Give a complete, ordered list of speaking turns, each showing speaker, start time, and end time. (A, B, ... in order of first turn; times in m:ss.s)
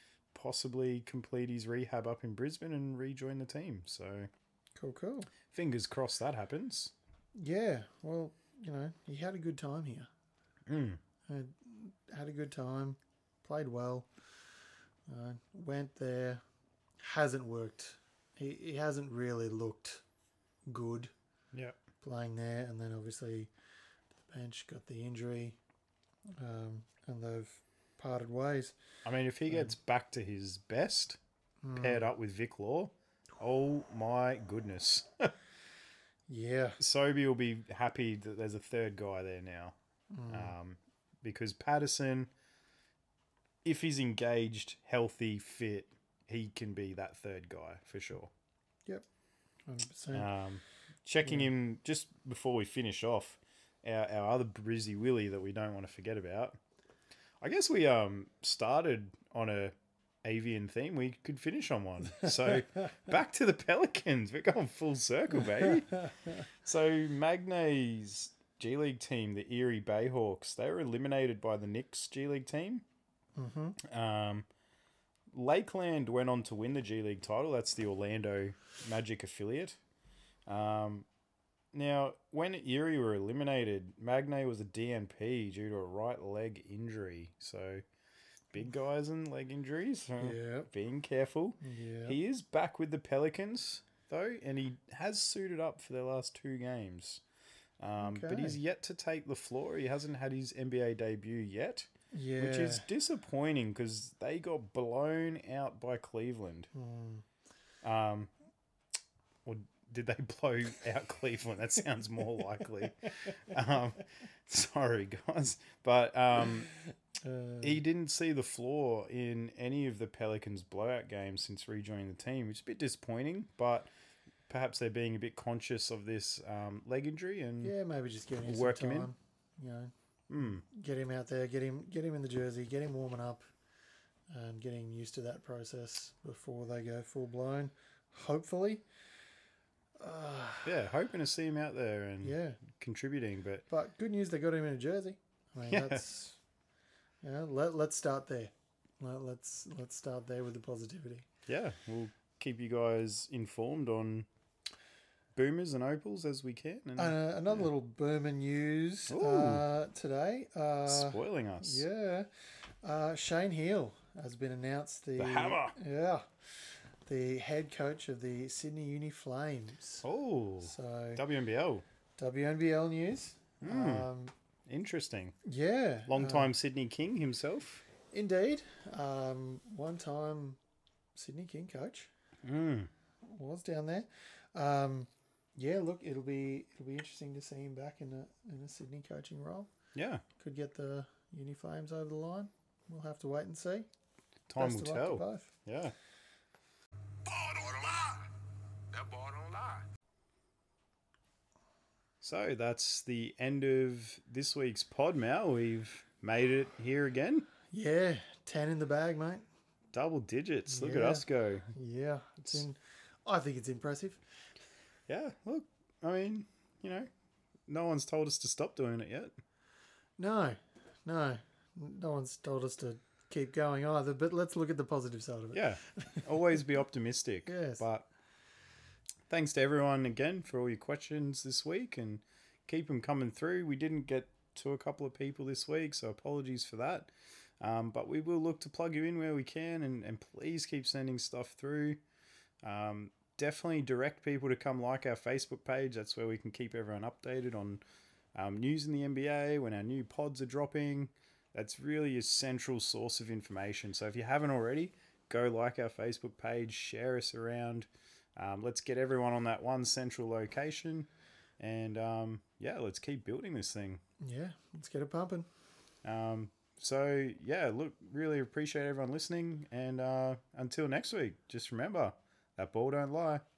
0:00.3-0:04.3 A
0:04.8-0:05.3 B
0:05.5-0:06.9 A
0:07.4-0:10.1 B
0:10.7-0:11.0 A
0:11.3-0:14.1 B
0:15.1-0:16.4 B
0:17.0-0:20.0 B
0:20.7-0:21.1 B
0:21.5-0:21.8 A
0:22.0-0:23.5 B
0:24.3-0:25.6 B
0:26.4-0:28.8 B
0:29.0-0:31.2 A
0:31.6-0:32.1 B
0:31.8-0:35.3 A
0:36.3-0:36.8 B
0:36.8-0:39.8 A
0:40.1-0:40.5 B
0:40.3-0:42.3 A
0:43.6-0:48.3 A
0:49.7-0:50.3 B
0:50.1-0:56.6 A
0:57.4-1:12.8 A
1:13.4-1:13.8 B
1:13.8-1:14.5 A
1:15.3-1:19.8 A
1:20.5-1:21.0 A
1:21.7-1:27.8 A
1:28.5-1:37.2 A
1:30.2-1:30.7 B
1:31.6-1:32.2 B
1:37.8-1:46.7 A
1:38.0-1:38.6 B
1:42.1-1:42.9 B
1:46.7-1:47.2 B
1:47.8-1:48.3 A
1:49.4-1:56.7 A
1:57.2-1:57.8 B
1:57.6-2:03.9 A
2:04.5-2:07.7 A
2:07.6-2:13.5 B
2:08.4-2:09.1 A
2:10.3-2:10.6 A
2:14.3-2:18.8 B
2:20.0-2:20.8 B
2:20.6-2:23.6 A
2:22.2-2:22.6 B
2:23.7-2:26.4 B
2:25.7-2:26.0 A
2:27.2-2:31.2 B
2:31.5-2:34.3 A
2:35.4-2:37.7 A
2:37.0-2:42.3 B
2:39.1-2:39.6 A
2:40.8-2:41.8 A
2:42.8-2:46.3 B
2:45.2-2:45.7 A
2:47.0-2:50.0 B
2:50.0-2:51.8 A
2:50.6-2:51.2 B
2:52.2-2:54.3 B
2:53.6-2:54.1 A
2:54.7-2:55.4 A
2:55.4-2:56.5 B
2:56.1-2:57.8 A
2:58.1-3:00.6 B
3:01.2-3:02.1 B
3:02.4-3:02.9 A
3:03.2-3:09.7 B
3:09.9-3:10.2 A
3:10.4-3:13.9 B
3:14.5-3:15.9 A
3:14.6-3:15.5 B
3:17.2-3:18.3 C
3:18.9-3:19.8 C
3:22.2-3:27.5 A
3:27.7-3:29.4 B
3:29.9-3:31.7 A
3:30.7-3:34.2 B
3:35.1-3:37.1 A
3:37.7-3:39.4 A
3:40.2-3:46.3 B
3:45.5-3:48.1 A
3:47.4-3:47.8 B
3:49.3-4:02.0 A
4:02.6-4:07.8 A
4:08.3-4:24.0 A
4:24.2-4:25.5 B
4:26.0-4:33.4 A